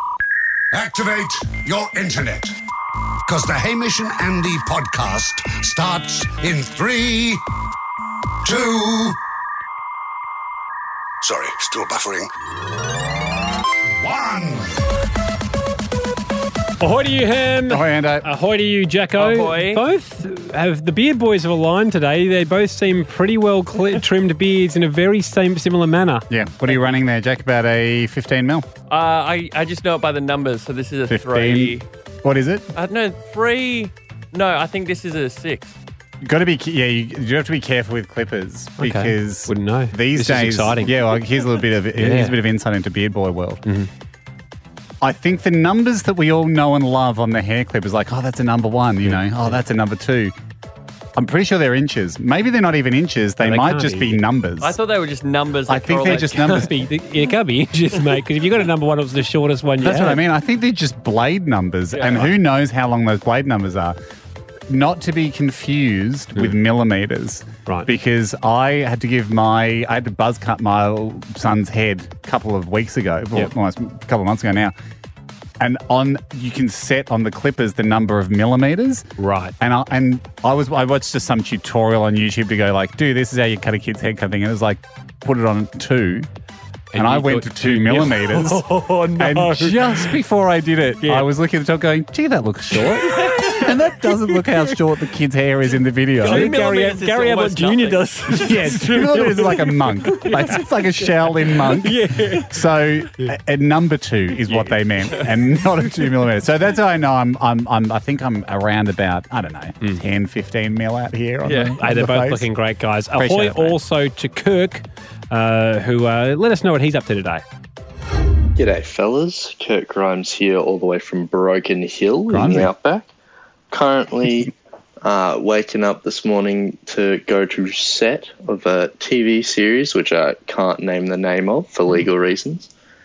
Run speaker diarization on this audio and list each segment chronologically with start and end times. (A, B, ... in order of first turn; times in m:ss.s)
0:00.7-0:02.6 A
0:03.3-0:07.4 A
0:08.4-0:09.2 A
0:11.2-0:12.3 A
0:14.0-0:14.7 A
0:16.8-0:26.3 B
0:17.7-0:18.3 C
0:19.2-0:19.8 D
0:26.3-0:28.7 C
0:28.9-0:31.9 D
0:31.1-0:32.7 C
0:32.8-0:35.8 D
0:36.2-0:43.6 C
0:38.8-0:41.1 B
0:42.0-0:42.4 B
0:43.6-0:43.9 B
0:45.0-0:50.4 C
0:49.0-0:49.6 B
0:51.2-0:54.8 C
0:53.4-0:54.2 B
0:54.6-0:56.7 D
0:55.7-0:56.7 C
0:56.0-1:00.2 B
0:59.8-1:04.0 C
1:02.0-1:02.3 B
1:04.7-1:14.7 C
1:15.6-1:19.1 C
1:19.2-1:19.5 B
1:19.6-1:26.3 C
1:26.9-1:30.2 B
1:27.0-1:28.7 C
1:29.2-1:36.5 C
1:31.0-1:31.3 B
1:32.7-1:34.8 B
1:36.2-1:38.6 D
1:36.2-1:42.6 B
1:38.4-1:52.5 C
1:44.5-1:45.3 B
1:51.4-1:51.8 D
1:51.8-1:57.4 B
1:53.2-1:53.8 C
1:58.6-2:03.1 E
2:02.3-2:02.7 C
2:03.7-2:12.7 E